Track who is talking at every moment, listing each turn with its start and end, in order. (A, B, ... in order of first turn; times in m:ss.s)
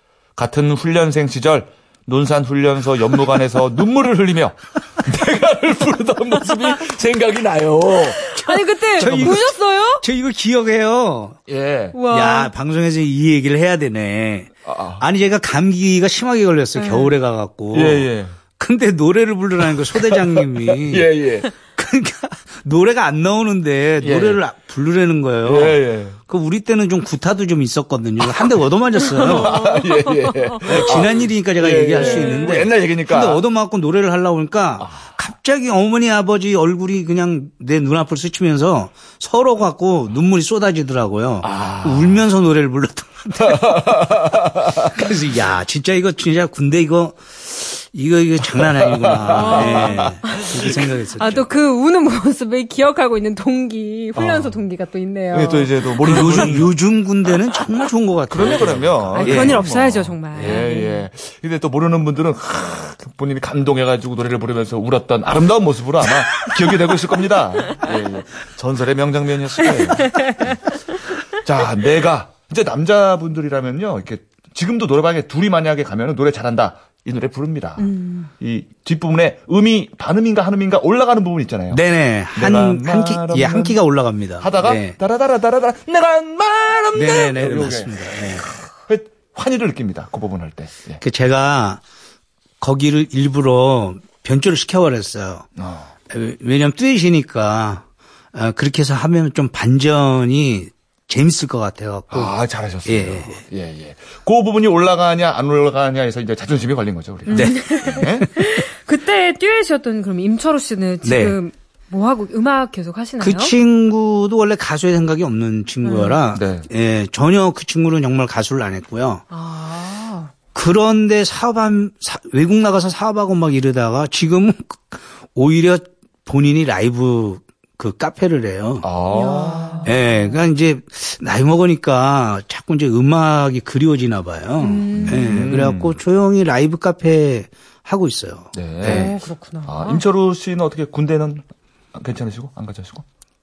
0:00.4-0:08.2 A
0:08.1-0:10.0 B
0:08.4-0:11.4 C
0:09.0-0:09.4 A
0:11.5-0:12.0 A
0:11.9-0:12.5 B
0:12.1-0:29.6 C
0:14.7-0:15.0 A
0:16.8-0:17.1 B
0:17.7-0:18.4 A
0:19.9-0:21.5 A
0:24.0-0:24.4 A
0:25.4-0:26.2 A
0:29.1-0:31.0 B
0:29.1-0:33.4 A
0:30.6-0:51.5 C
0:32.0-0:32.6 B
0:41.4-0:42.2 A
0:43.4-0:44.9 A
0:48.8-0:50.0 A
0:49.3-0:56.5 B
0:54.2-0:54.6 A
0:55.3-0:56.7 A
0:56.0-0:59.6 C
0:58.3-1:10.6 A
0:59.2-1:01.0 B
1:00.4-1:00.8 C
1:09.8-1:10.5 B
1:11.4-1:21.8 A
1:17.8-1:18.3 B
1:21.7-1:25.0 C
1:22.4-1:23.8 A
1:24.4-1:31.0 A
1:26.9-1:28.5 C
1:31.0-1:31.8 C
1:32.6-1:35.5 C
1:35.6-1:35.9 A
1:36.1-1:42.3 C
1:42.1-1:48.3 A
1:42.8-1:43.4 C
1:47.3-1:53.5 B
1:47.3-1:48.3 C
1:51.0-1:51.4 C
1:53.2-1:59.2 C
1:55.8-1:56.2 B
1:56.3-1:56.7 A
1:59.3-2:00.3 B
2:00.5-2:08.9 C
2:08.8-2:09.9 A
2:09.1-2:10.4 B
2:09.8-2:19.2 C
2:14.6-2:15.5 B
2:15.0-2:16.0 A
2:18.6-2:19.2 A
2:18.8-2:20.0 B
2:19.7-2:23.0 A